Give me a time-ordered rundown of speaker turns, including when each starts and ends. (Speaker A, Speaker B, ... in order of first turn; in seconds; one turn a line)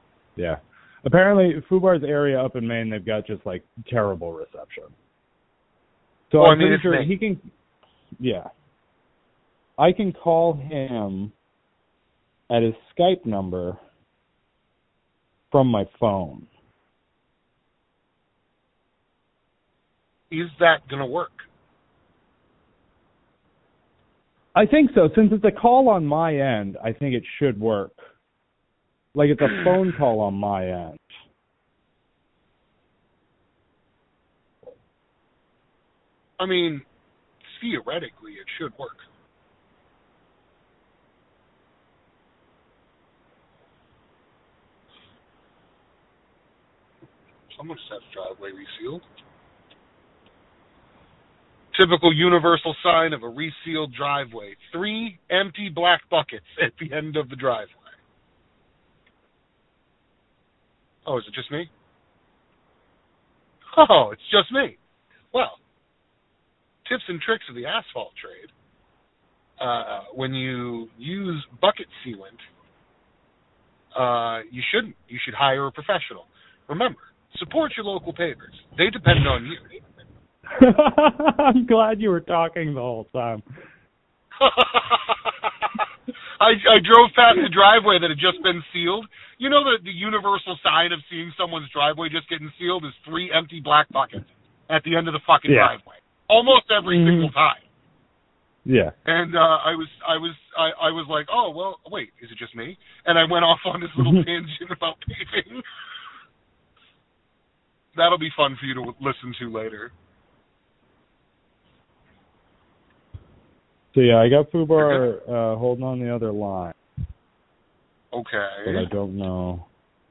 Speaker A: 0.3-4.9
Speaker A: 6.3-7.5
Speaker B: 6.4-7.1
Speaker A: 8.2-8.5
Speaker A: 9.8-11.3
Speaker A: 12.5-13.8
Speaker A: 15.5-16.5
Speaker B: 20.3-21.4
Speaker A: 24.5-28.0
Speaker A: 29.1-31.1
Speaker B: 36.4-36.9
Speaker B: 37.4-39.0
Speaker B: 47.5-49.0
Speaker B: 51.7-57.9
Speaker B: 61.0-61.7
Speaker B: 63.7-64.8
Speaker B: 65.3-65.6
Speaker B: 66.8-68.5
Speaker B: 69.6-72.4
Speaker B: 73.9-79.8
Speaker A: 80.5-83.4
Speaker B: 84.4-85.3
Speaker B: 86.4-97.6
Speaker A: 95.5-95.7
Speaker A: 96.9-97.3
Speaker A: 98.7-98.9
Speaker B: 99.0-105.7
Speaker A: 104.0-104.2
Speaker B: 107.9-109.9
Speaker A: 113.9-116.7
Speaker B: 114.8-115.0
Speaker B: 118.1-118.9
Speaker A: 118.7-119.7